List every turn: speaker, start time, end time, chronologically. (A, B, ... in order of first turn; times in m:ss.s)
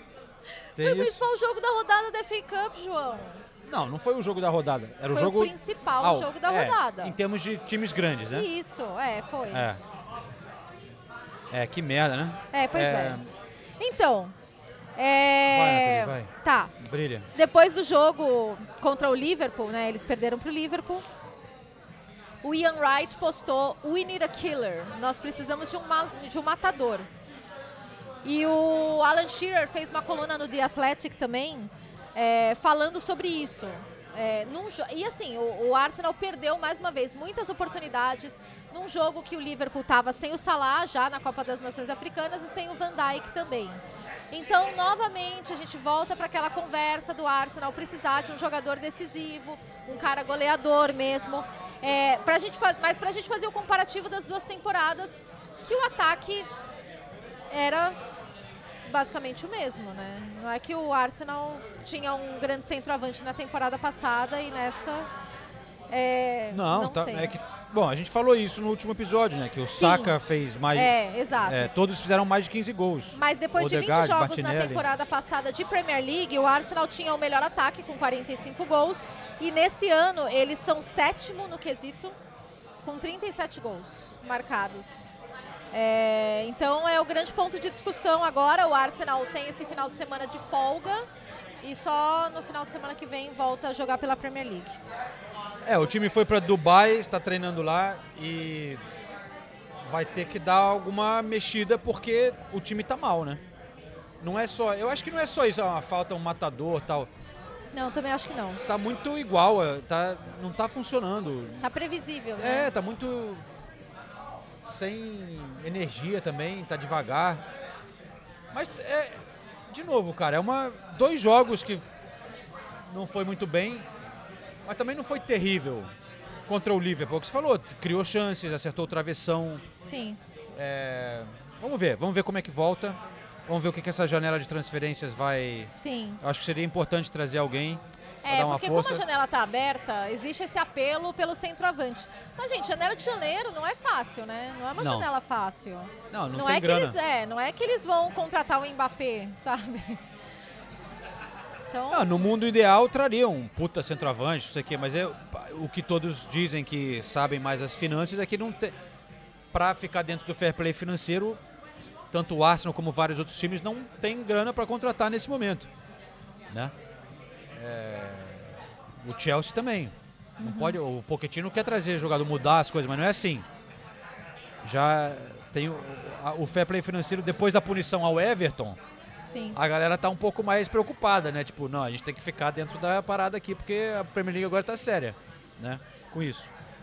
0:00.8-0:03.4 A
0:00.8-0:01.2 B
0:03.7-0:08.5 B
0:05.1-0:07.2 A
0:08.3-0:09.7 A
0:09.5-0:09.8 B
0:11.5-0:13.3 B
0:12.5-0:13.2 A
0:13.8-0:14.3 A
0:15.0-0:16.7 A
0:15.5-0:17.3 B
0:17.3-0:21.0 A
0:22.4-0:27.1 A
0:28.2-0:56.5 A
0:57.5-0:58.0 A
0:58.8-1:05.1 A
1:05.9-1:07.3 A
1:06.5-1:10.9 B
1:09.8-1:10.2 A
1:10.7-1:11.7 A
1:11.4-1:14.9 B
1:13.1-1:22.2 A
1:22.8-1:25.1 A
1:25.7-1:31.1 A
1:31.6-1:34.8 A
1:35.6-1:38.8 B
1:39.9-1:43.4 B
1:44.2-1:47.1 B
1:47.7-1:48.6 A
1:48.7-1:51.6 B
1:51.6-1:52.7 A
1:52.4-1:53.4 B
1:54.6-1:57.4 B
1:58.5-2:01.8 B
2:02.9-2:03.9 B
2:04.7-2:05.9 B
2:06.5-2:09.6 B
2:09.8-2:10.2 A
2:10.6-2:15.7 B
2:15.8-2:16.2 A
2:16.2-2:19.0 B
2:18.2-2:30.0 A
2:24.8-2:25.1 B
2:26.1-2:27.0 B
2:31.7-2:32.3 A
2:31.9-2:38.8 B
2:39.5-2:41.4 B
2:42.1-2:45.7 B
2:47.6-2:53.5 B
2:50.4-2:50.8 A
2:54.6-2:58.8 B
2:59.3-2:59.6 A
2:59.6-3:06.5 B